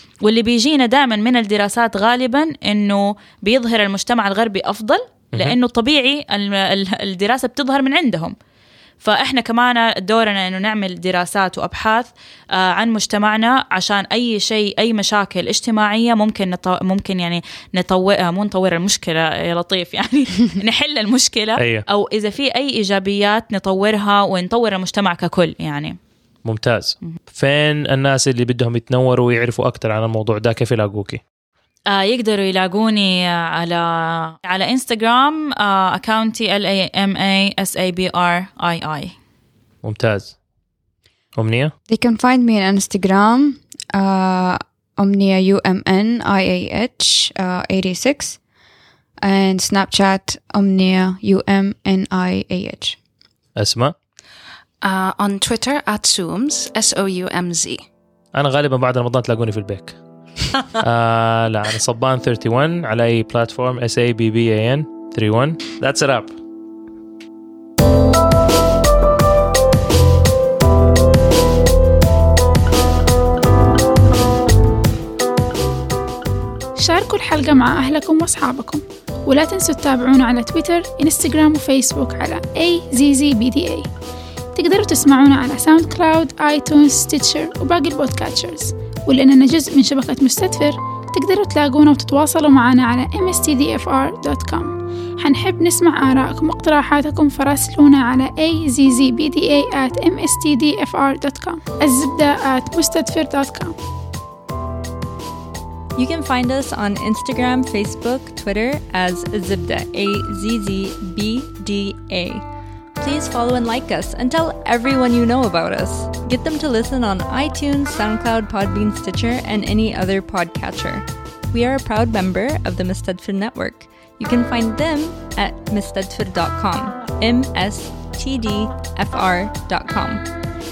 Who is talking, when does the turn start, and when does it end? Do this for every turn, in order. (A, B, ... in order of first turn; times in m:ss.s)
0:00.2-0:08.4 A
0:09.0-0:26.0 A
0:21.6-0:21.8 B
0:26.4-0:31.2 B
0:31.9-0:39.2 A
0:39.8-0:40.3 B
0:41.4-0:41.7 B
0:41.9-0:48.4 C
0:49.2-0:53.0 C
0:53.6-0:53.9 B
0:54.8-0:57.8 D
0:58.3-1:00.0 B
1:00.8-1:06.4 B
1:16.8-1:23.9 E
1:24.6-1:43.8 E
1:46.0-1:52.4 F
1:53.0-2:10.3 F